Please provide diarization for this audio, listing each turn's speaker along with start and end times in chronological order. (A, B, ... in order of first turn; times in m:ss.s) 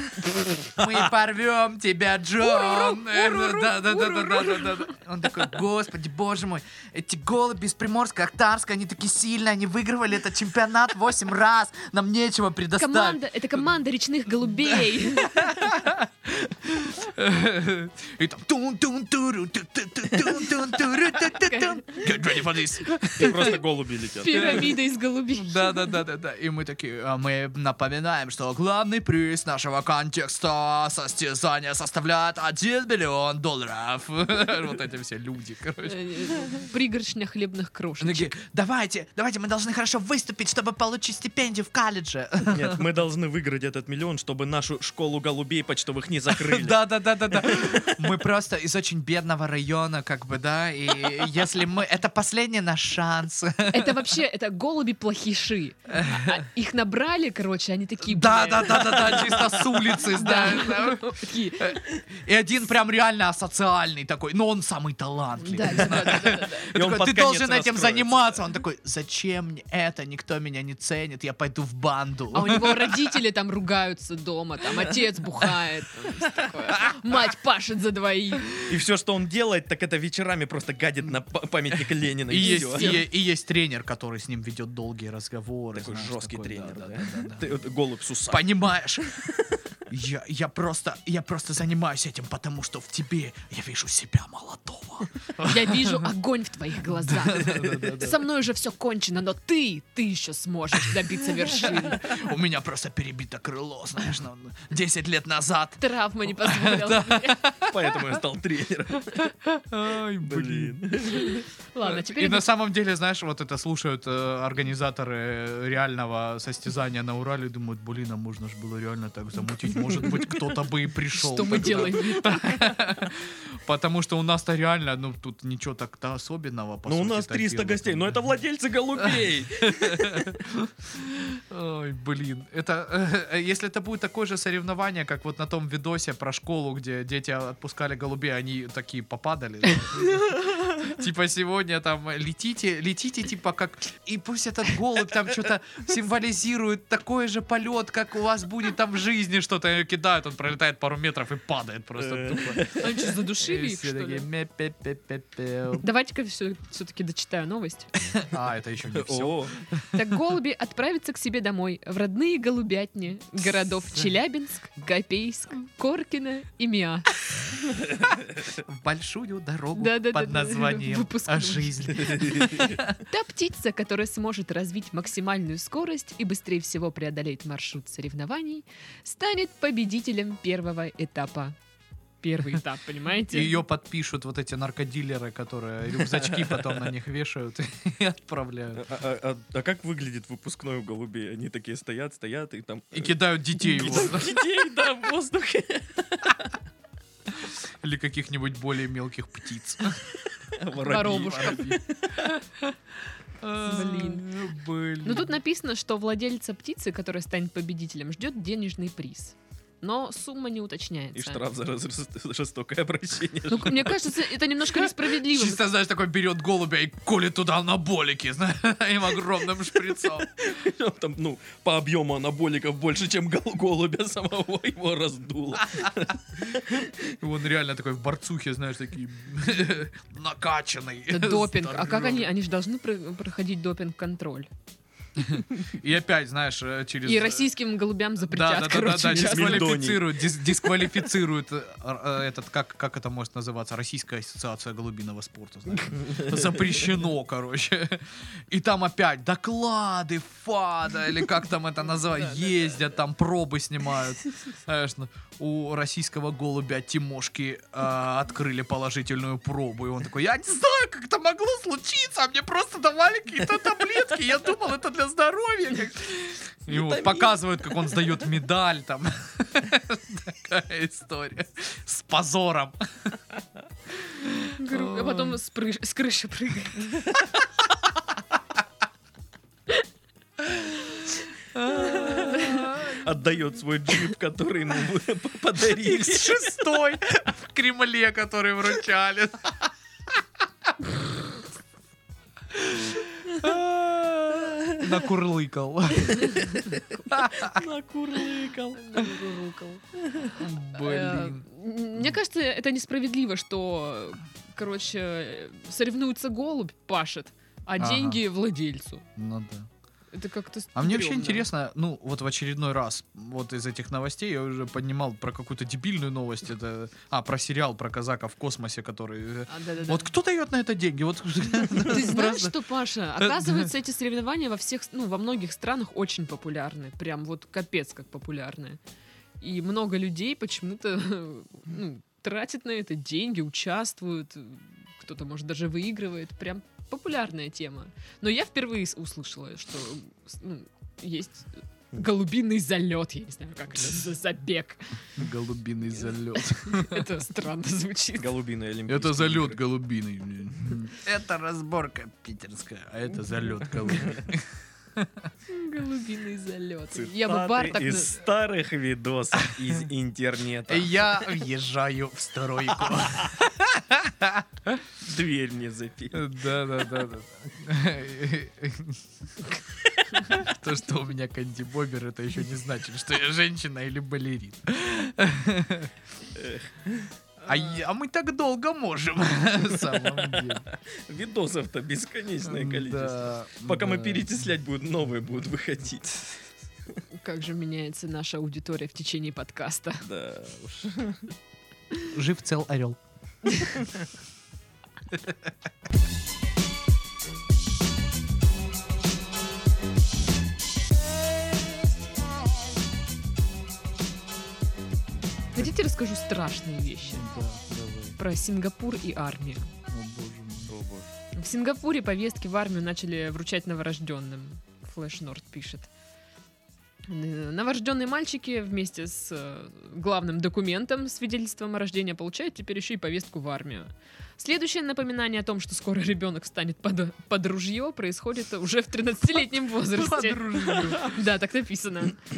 0:00.2-0:13.2 A
0:02.4-0:04.9 B
0:12.8-0:15.5 B
0:14.6-0:23.6 A
0:21.3-0:22.0 B
0:23.0-0:23.6 B
0:23.1-0:24.7 C
0:24.2-0:25.9 B
0:24.3-0:24.7 A
0:25.3-0:36.5 A
0:35.8-0:38.4 B
0:38.0-0:42.8 A
0:42.5-0:46.8 C
0:46.3-0:54.1 A
0:47.4-0:47.8 C
0:53.7-1:01.8 B
0:55.9-0:56.4 A
0:58.0-1:13.0 A
1:05.4-1:06.7 B
1:05.8-1:08.4 C
1:12.3-1:18.7 B
1:18.7-1:23.0 C
1:22.3-1:27.6 A
1:22.4-1:23.0 B
1:25.7-1:29.6 C
1:28.3-1:29.1 A
1:29.9-1:36.1 A
1:35.4-1:42.1 B
1:36.9-1:38.2 A
1:41.4-1:48.2 A
1:45.8-1:47.4 B
1:47.7-1:49.2 C
1:49.1-1:51.3 A
1:50.2-1:51.4 C
1:51.0-1:52.5 B
1:51.8-2:08.2 A
1:59.8-2:00.6 C
2:01.1-2:02.6 B
2:01.4-2:01.9 C
2:06.8-2:10.4 C
2:09.0-2:32.7 A
2:32.0-2:33.0 C
2:32.8-2:34.2 B
2:33.4-2:35.8 A
2:35.8-2:37.9 B
2:38.1-2:40.0 A
2:38.9-2:39.6 C
2:39.9-2:47.2 B
2:48.5-2:53.0 A
2:49.7-3:01.6 B
2:51.9-2:52.7 C
3:02.2-3:03.6 B
3:03.3-3:08.9 A
3:06.0-3:06.8 C
3:08.8-3:16.5 C
3:12.9-3:14.4 A
3:17.4-3:20.0 A
3:20.5-3:22.3 C
3:20.8-3:21.6 B
3:20.8-3:22.8 A
3:23.4-3:25.4 A
3:23.6-3:24.3 B
3:25.0-3:31.4 B
3:31.1-3:34.1 C
3:33.5-3:35.6 B
3:34.7-3:40.3 A
3:39.8-3:47.0 C
3:47.0-3:52.3 A
3:51.1-3:54.5 B
3:55.2-3:57.5 A
3:57.0-3:59.8 B
3:58.2-4:32.8 A
3:59.0-4:00.3 C
4:06.0-4:06.7 C
4:26.7-4:28.2 C
4:33.9-4:35.4 A
4:34.6-4:37.2 B
4:41.5-4:43.1 A
4:41.8-4:46.6 C
4:41.9-4:42.6 B
4:45.8-4:50.2 A
4:52.5-4:57.6 A
4:54.4-4:55.0 C
4:57.3-4:59.0 C
4:58.7-5:09.0 B
5:00.1-5:00.3 C
5:00.3-5:01.4 A
5:07.8-5:08.2 A
5:09.2-5:09.7 A
5:10.1-5:11.5 B
5:10.7-5:22.5 A
5:19.5-5:20.1 B
5:21.8-5:28.8 B
5:23.2-5:23.7 A
5:29.4-5:45.0 B
5:45.2-5:47.1 A
5:46.3-5:48.3 B
5:48.2-5:49.6 C
5:48.9-5:55.3 A
5:53.8-5:54.2 C
5:55.5-5:58.2 B
5:56.9-6:01.3 C
6:00.7-6:04.8 A
6:02.8-6:03.3 C
6:05.0-6:06.2 C
6:06.1-6:09.6 A
6:10.1-6:15.9 A
6:16.3-6:17.1 C
6:17.4-6:20.6 A
6:19.7-6:26.4 C
6:22.4-6:24.3 A
6:27.2-6:30.0 B
6:30.0-6:31.3 C
6:32.1-6:33.0 A
6:33.4-6:33.7 B
6:45.5-6:47.3 B
6:47.0-6:48.2 A
6:48.2-6:49.7 B
6:49.9-6:50.7 A
6:50.7-6:51.1 C
6:51.3-6:55.9 B
6:57.1-7:12.2 B
7:09.9-7:11.1 A